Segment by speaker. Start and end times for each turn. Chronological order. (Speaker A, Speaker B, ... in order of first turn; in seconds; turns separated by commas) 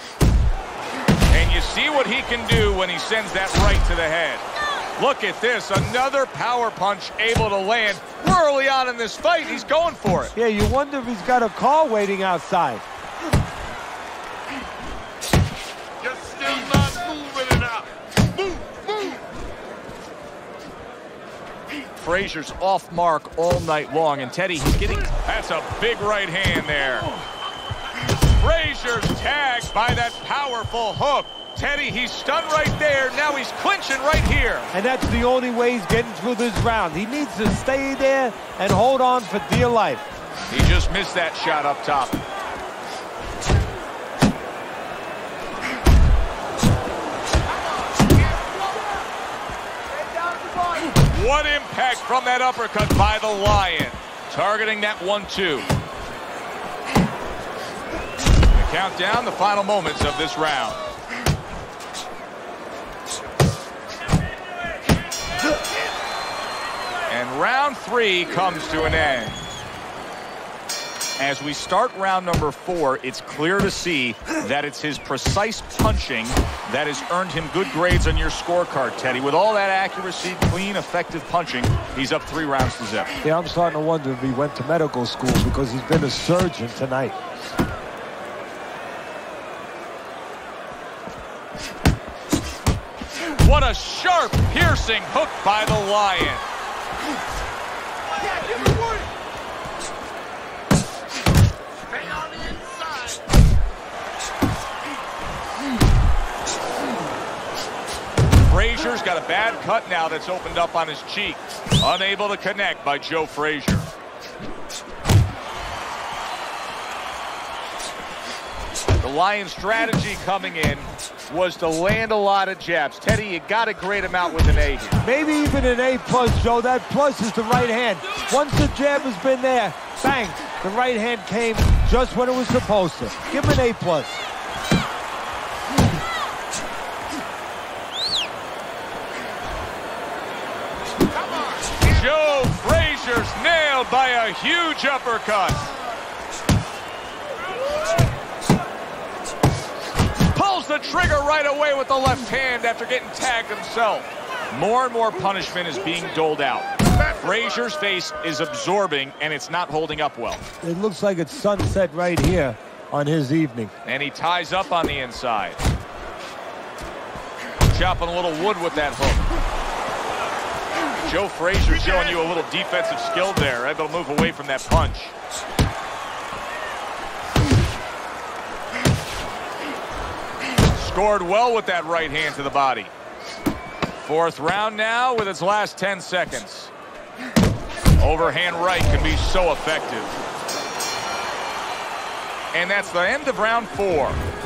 Speaker A: 1.3-4.4, Speaker A: 5.0-10.3, Speaker B: 10.3-12.8, Speaker C: 16.0-19.2, Speaker A: 22.0-27.1, Speaker A: 28.3-34.7, Speaker B: 34.7-40.0, Speaker A: 40.5-42.2, Speaker C: 48.0-48.6, Speaker A: 50.9-55.7, Speaker A: 58.5-60.8, Speaker A: 67.1-69.4, Speaker A: 71.2-83.1, Speaker B: 83.2-87.2, Speaker A: 93.3-96.4, Speaker C: 102.0-103.2, Speaker A: 108.5-113.9, Speaker A: 119.0-125.0, Speaker B: 125.0-134.2, Speaker A: 141.8-145.7, Speaker A: 150.3-160.4, Speaker B: 160.6-163.7, Speaker A: 163.8-165.6, Speaker A: 167.7-169.3, Speaker A: 171.0-175.1, Speaker A: 180.7-182.9, Speaker A: 183.9-186.7, Speaker A: 188.0-190.2, Speaker A: 192.5-194.2